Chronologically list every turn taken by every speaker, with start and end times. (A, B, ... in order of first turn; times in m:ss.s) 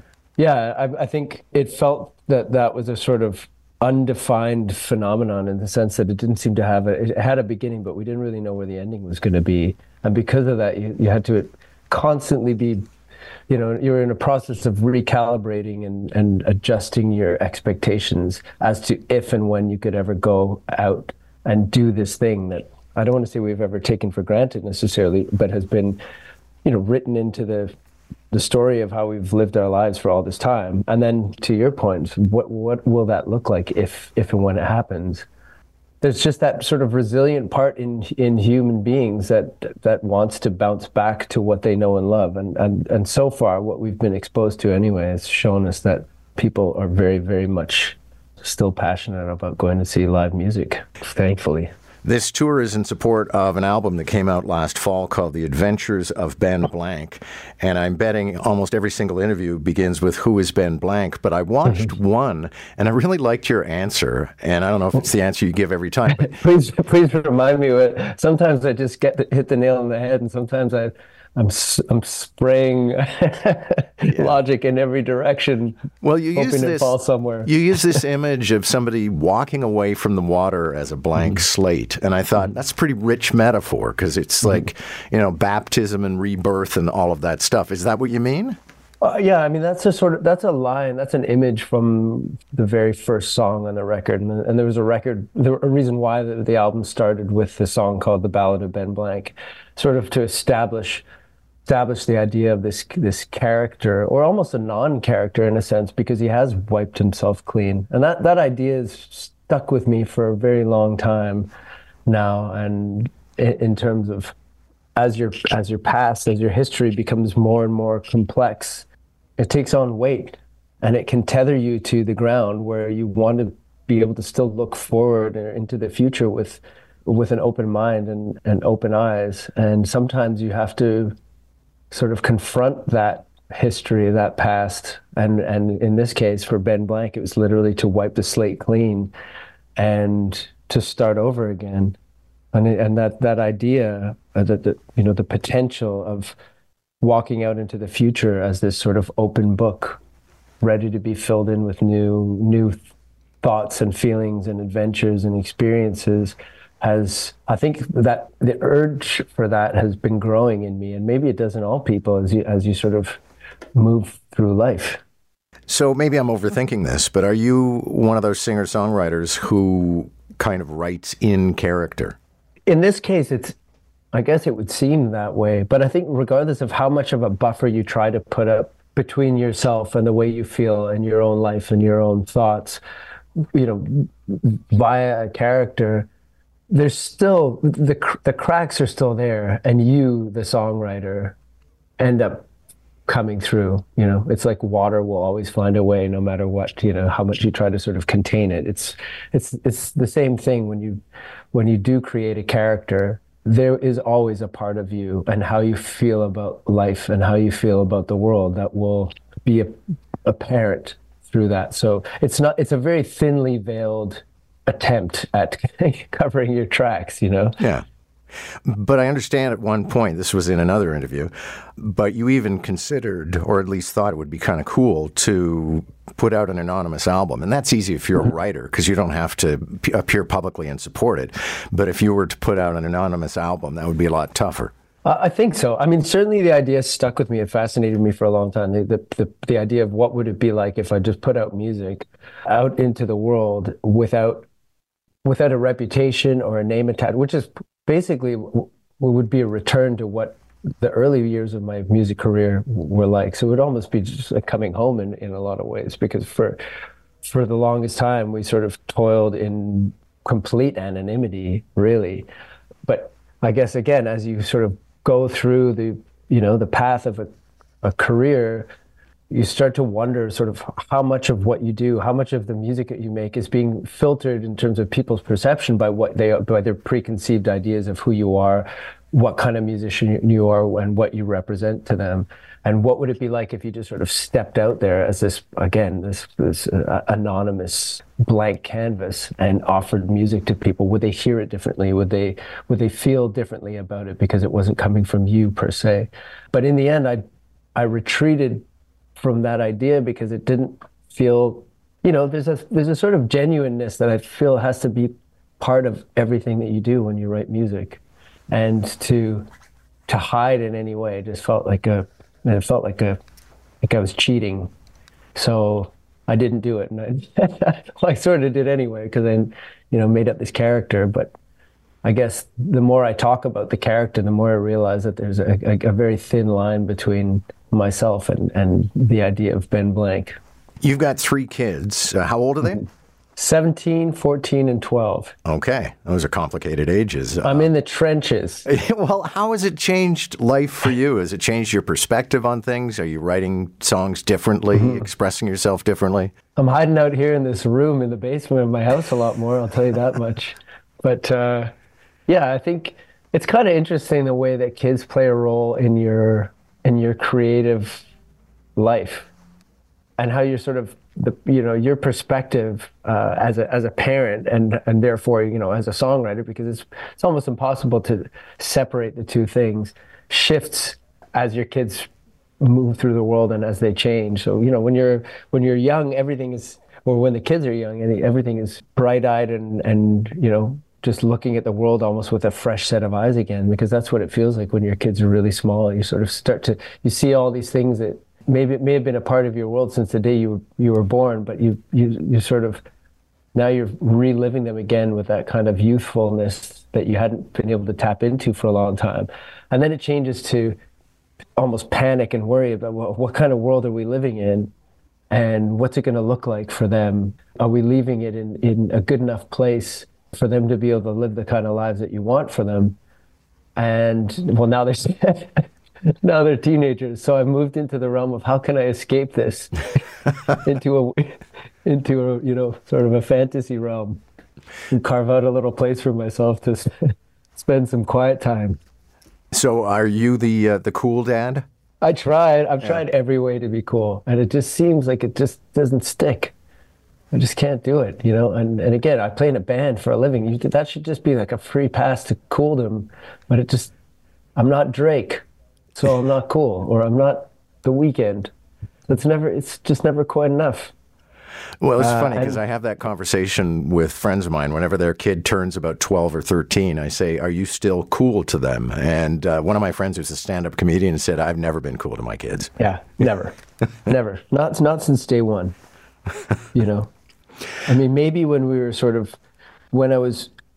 0:00.4-0:12.8 A
0:13.5-0:26.0 A
0:26.6-0:27.7 A
0:28.3-0:35.2 A
0:36.0-0:51.7 A
0:52.0-1:06.3 B
1:06.1-1:15.8 A
1:16.0-1:16.9 B
1:16.3-1:18.0 A
1:17.4-1:28.6 B
1:29.0-1:41.0 A
1:41.6-1:51.5 A
1:52.0-1:54.3 A
1:55.0-1:58.8 A
1:59.4-2:11.1 A
2:11.9-2:19.1 A
2:19.8-2:22.0 A
2:22.5-2:26.3 A
2:27.0-2:30.0 A
2:30.6-2:32.8 A
2:33.4-2:43.2 A
2:43.7-2:45.0 A
2:45.7-2:52.2 B
2:52.7-2:53.6 A
2:54.1-3:02.8 A
3:03.5-3:06.1 A
3:06.7-3:11.4 A
3:12.0-3:12.4 A
3:13.1-3:21.0 A
3:21.5-3:37.6 A
3:37.6-3:37.8 B
3:38.6-3:54.7 B
3:55.0-4:04.5 A
4:05.2-4:16.6 A
4:17.2-4:22.3 A
4:22.8-4:27.3 A
4:27.8-4:28.7 A
4:29.3-4:57.2 A
4:57.7-4:58.6 A
4:59.2-5:09.5 A
5:10.1-5:13.2 A
5:13.8-5:14.7 A
5:15.3-5:21.3 A
5:22.0-5:30.4 A
5:30.8-5:32.8 B
5:33.4-5:35.3 A
5:35.4-5:37.7 B
5:37.4-5:38.6 A
5:38.6-5:46.3 B
5:44.8-5:45.0 A
5:46.6-5:51.7 A
5:52.3-5:58.0 A
5:58.8-5:59.3 A
6:00.2-6:12.1 A
6:12.6-6:32.8 A
6:33.5-6:40.8 A
6:41.6-6:44.7 A
6:45.3-6:53.0 A
6:53.8-6:55.6 A
6:56.2-6:59.8 A
7:00.5-7:04.2 A
7:04.9-7:07.0 A
7:07.6-7:08.8 A
7:09.5-7:11.6 B
7:12.0-7:16.5 A
7:17.3-7:23.9 A
7:24.6-7:25.4 A
7:26.0-7:28.5 A
7:29.1-7:30.9 A
7:31.8-7:42.7 B
7:32.0-7:32.6 A
7:42.8-7:45.7 A
7:46.7-7:47.1 A
7:47.8-7:49.4 A
7:49.9-7:50.5 A